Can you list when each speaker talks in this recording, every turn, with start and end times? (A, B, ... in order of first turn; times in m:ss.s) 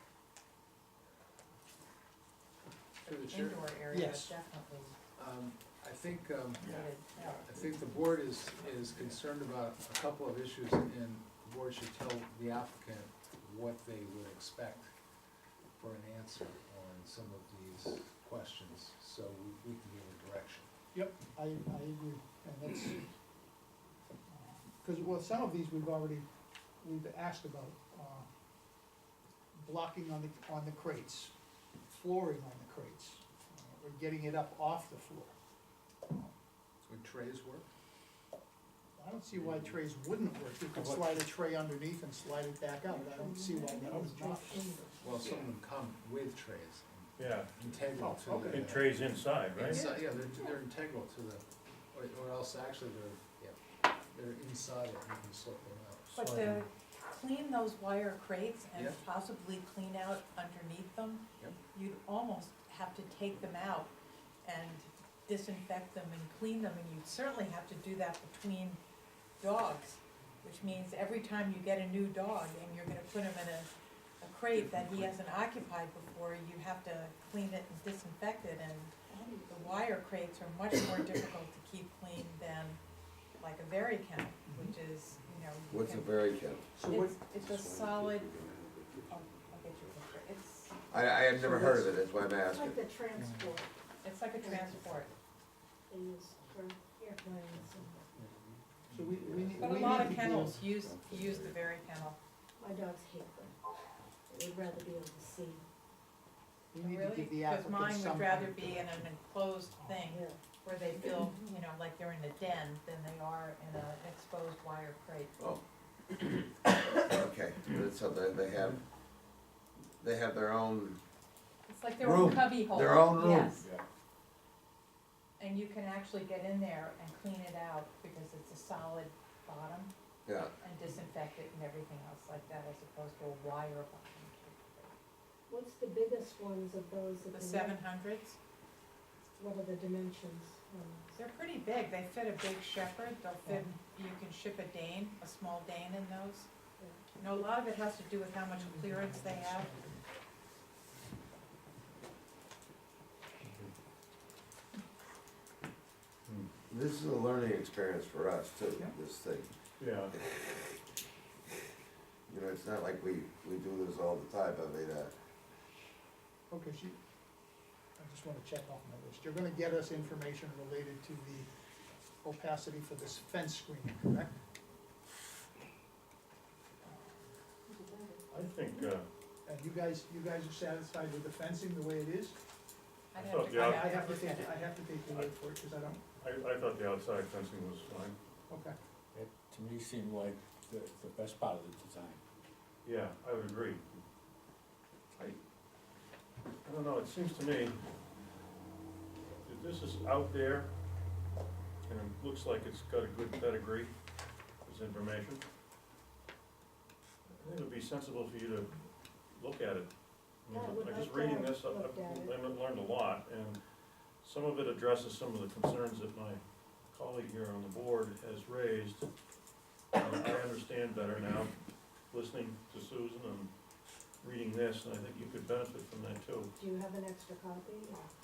0:03.0-0:03.6 A
0:03.1-0:04.9 B
0:03.9-0:04.3 C
0:05.2-0:06.8 A
0:06.6-0:07.6 B
0:07.4-0:14.9 A
0:15.8-0:20.7 A
0:20.9-0:23.0 C
0:24.3-0:26.2 C
0:26.8-0:28.3 C
0:29.5-0:31.3 C
0:31.9-0:35.3 C
0:36.1-0:36.3 C
0:36.8-0:37.7 A
0:39.0-0:44.8 C
0:40.8-0:41.2 D
0:42.8-0:45.3 E
0:45.0-0:53.6 A
0:47.2-0:47.5 D
0:48.0-0:48.6 C
0:48.5-0:49.8 D
0:49.6-0:50.0 B
0:54.1-0:56.2 A
0:56.1-1:03.9 B
0:58.7-0:59.0 A
1:04.4-1:08.8 B
1:09.4-1:22.8 B
1:14.5-1:15.1 D
1:19.1-1:19.6 E
1:23.4-1:26.2 B
1:24.5-1:24.8 C
1:25.7-1:29.2 F
1:26.8-1:28.3 B
1:26.8-1:27.0 C
1:29.1-1:30.8 B
1:30.9-1:32.8 F
1:31.4-1:31.8 E
1:32.5-1:33.7 E
1:34.0-1:35.1 B
1:34.4-1:34.8 E
1:35.9-1:38.1 E
1:38.9-1:40.6 C
1:39.4-1:41.6 F
1:39.6-1:42.2 B
1:42.6-1:43.6 E
1:44.3-1:45.6 E
1:46.7-1:49.0 C
1:46.8-1:55.3 B
1:50.0-1:51.1 E
1:56.2-1:58.8 F
2:00.0-2:01.0 F
2:01.7-2:03.7 B
2:02.0-2:03.6 F
2:03.5-2:03.8 G
2:05.4-2:09.9 B
2:10.2-2:10.5 F
2:10.6-2:14.9 B
2:15.5-2:17.8 E
2:17.3-2:18.4 B
2:19.4-2:21.2 E
2:21.2-2:26.5 B
2:23.4-2:23.7 C
2:26.8-2:27.2 E
2:27.1-2:29.7 B
2:28.5-2:30.0 C
2:33.4-2:33.7 D
2:36.7-2:39.5 F
2:39.8-2:40.1 D
2:40.1-2:40.8 F
2:42.3-2:45.1 F
2:46.5-2:47.0 C
2:48.0-2:51.5 C
2:52.2-2:54.4 C
2:57.7-2:58.2 E
2:58.3-2:59.1 D
2:59.4-3:02.4 C
3:03.1-3:04.6 B
3:03.2-3:03.9 D
3:03.5-3:06.0 C
3:06.2-3:08.1 D
3:08.5-3:08.8 C
3:09.1-3:12.2 G
3:12.8-3:13.8 D
3:16.6-3:17.8 D
3:19.4-3:20.7 D
3:21.8-3:23.9 D
3:24.6-3:25.4 D
3:27.3-3:28.7 D
3:29.3-3:29.9 D
3:30.4-3:33.6 D
3:30.5-3:32.4 E
3:34.2-3:39.0 D
3:39.9-3:41.5 D
3:42.1-3:43.5 D
3:44.2-3:46.5 D
3:46.6-3:48.1 E